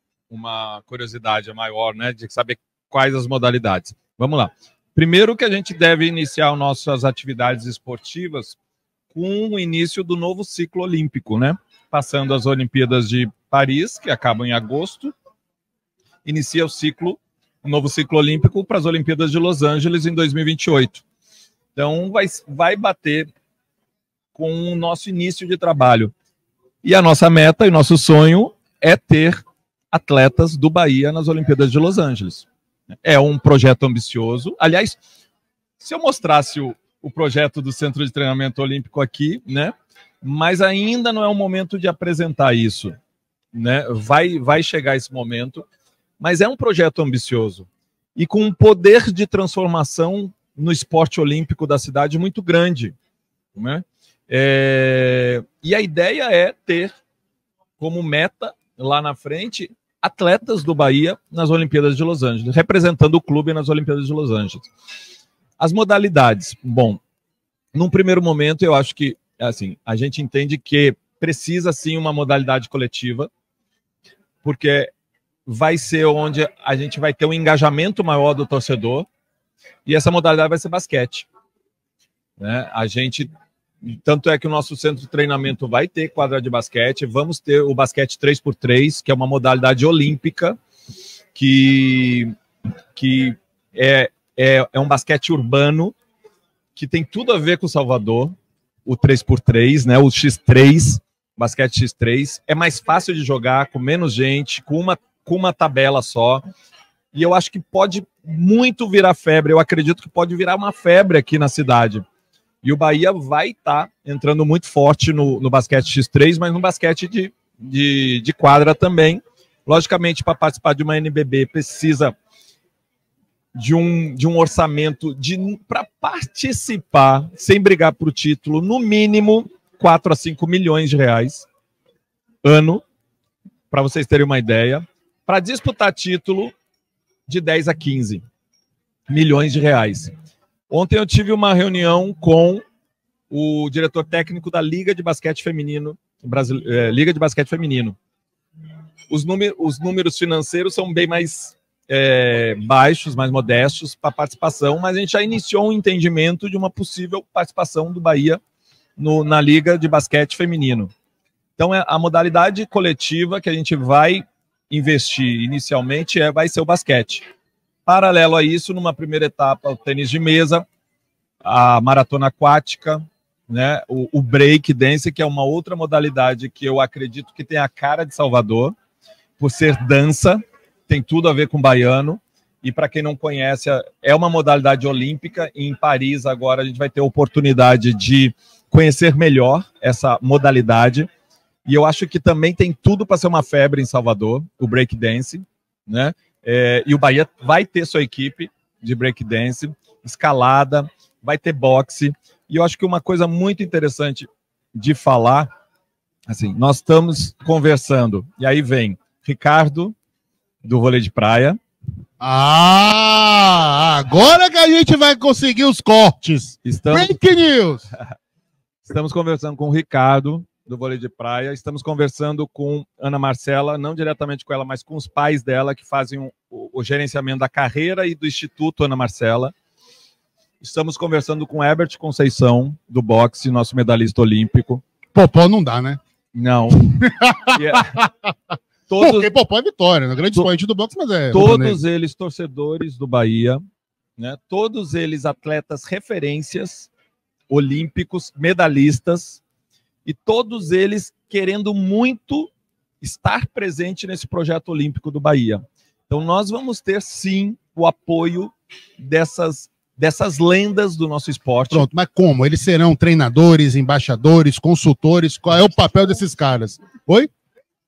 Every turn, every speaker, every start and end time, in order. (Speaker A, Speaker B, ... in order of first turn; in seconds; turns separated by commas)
Speaker A: 0.3-8.6, Speaker A: 9.1-15.1, Speaker A: 16.2-21.0, Speaker A: 21.8-23.3, Speaker A: 24.4-26.1, Speaker A: 26.8-32.5, Speaker A: 33.0-35.0, Speaker A: 35.8-43.0, Speaker A: 43.5-45.7, Speaker A: 46.2-53.0, Speaker A: 53.6-56.9, Speaker A: 57.8-64.7, Speaker A: 65.6-67.0, Speaker A: 67.7-73.3, Speaker A: 74.4-74.9, Speaker A: 75.5-79.1, Speaker A: 79.9-81.3, Speaker A: 82.4-83.3, Speaker A: 83.8-90.6, Speaker A: 91.3-92.3, Speaker A: 93.0-95.9, Speaker A: 96.8-98.3, Speaker A: 98.9-106.4, Speaker A: 107.1-112.0, Speaker A: 112.6-122.1, Speaker A: 123.5-131.5, Speaker A: 132.4-132.8, Speaker A: 133.7-136.5, Speaker A: 137.3-138.2, Speaker A: 139.1-140.1, Speaker A: 140.7-142.6, Speaker A: 143.3-148.0, Speaker A: 149.1-158.4, Speaker A: 159.0-160.9, Speaker A: 161.6-167.3, Speaker A: 167.9-170.7, Speaker A: 171.4-178.8, Speaker A: 179.4-191.1, Speaker A: 191.7-205.5, Speaker A: 206.3-209.9, Speaker A: 210.6-211.6, Speaker B: 212.2-217.9, Speaker A: 216.6-217.2, Speaker A: 218.9-229.5, Speaker A: 230.6-234.8, Speaker B: 235.1-236.0, Speaker A: 236.3-237.0, Speaker B: 237.0-238.3, Speaker A: 237.5-238.0, Speaker A: 238.9-239.3, Speaker B: 239.0-241.8, Speaker A: 241.3-243.6, Speaker A: 244.2-246.9, Speaker A: 247.5-249.4, Speaker A: 250.1-252.5, Speaker A: 253.0-261.9, Speaker B: 261.7-267.3